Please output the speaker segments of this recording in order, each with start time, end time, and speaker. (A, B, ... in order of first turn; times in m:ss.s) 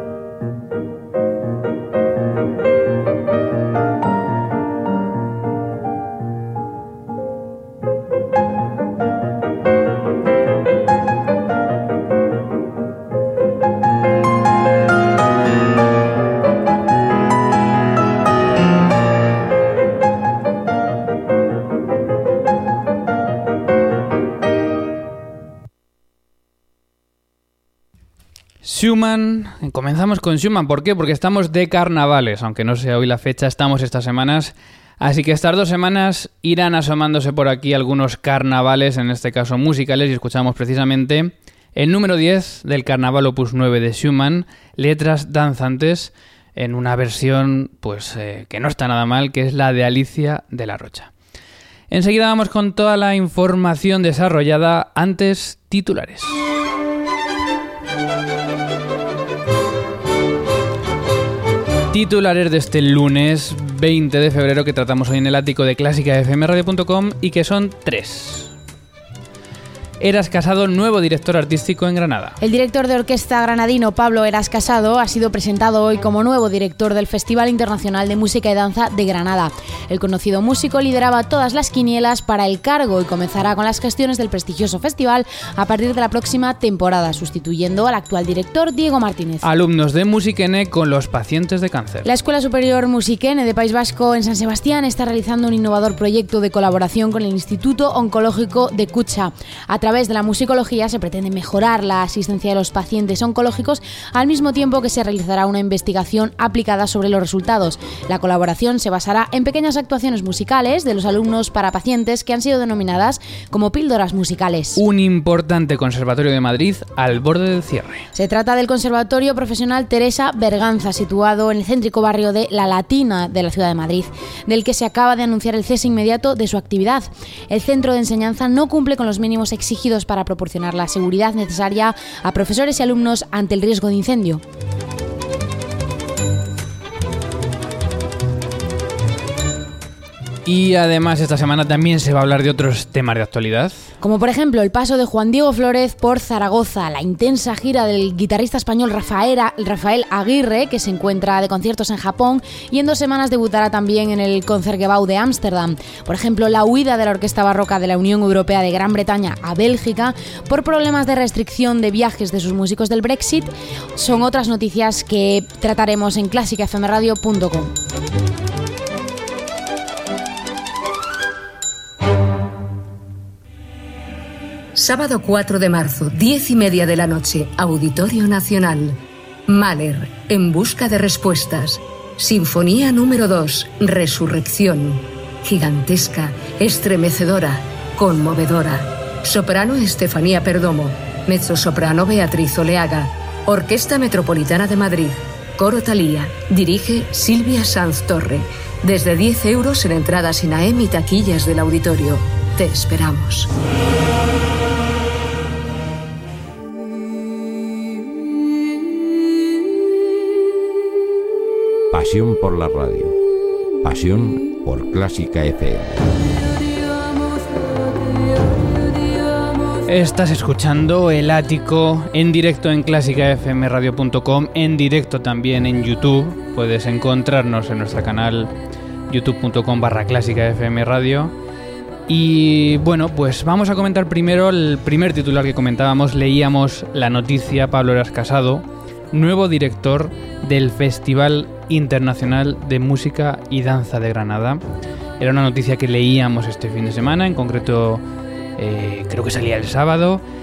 0:28.6-0:51.1 A
0:51.9-0:56.5 A
1:01.9-1:08.5 A
1:10.0-1:12.4 A
1:12.4-1:29.4 B
1:29.4-1:32.1 A
1:32.0-1:54.8 B
1:54.8-1:58.1 A
1:58.2-2:14.4 B
2:20.4-2:23.9 A
2:24.0-2:47.7 B
2:54.8-3:23.5 C
3:31.9-3:33.2 D
3:33.8-3:36.0 D
3:39.9-3:48.5 A
3:49.1-3:51.3 A
3:52.1-4:04.6 A
4:05.2-4:08.0 A
4:08.6-4:10.2 A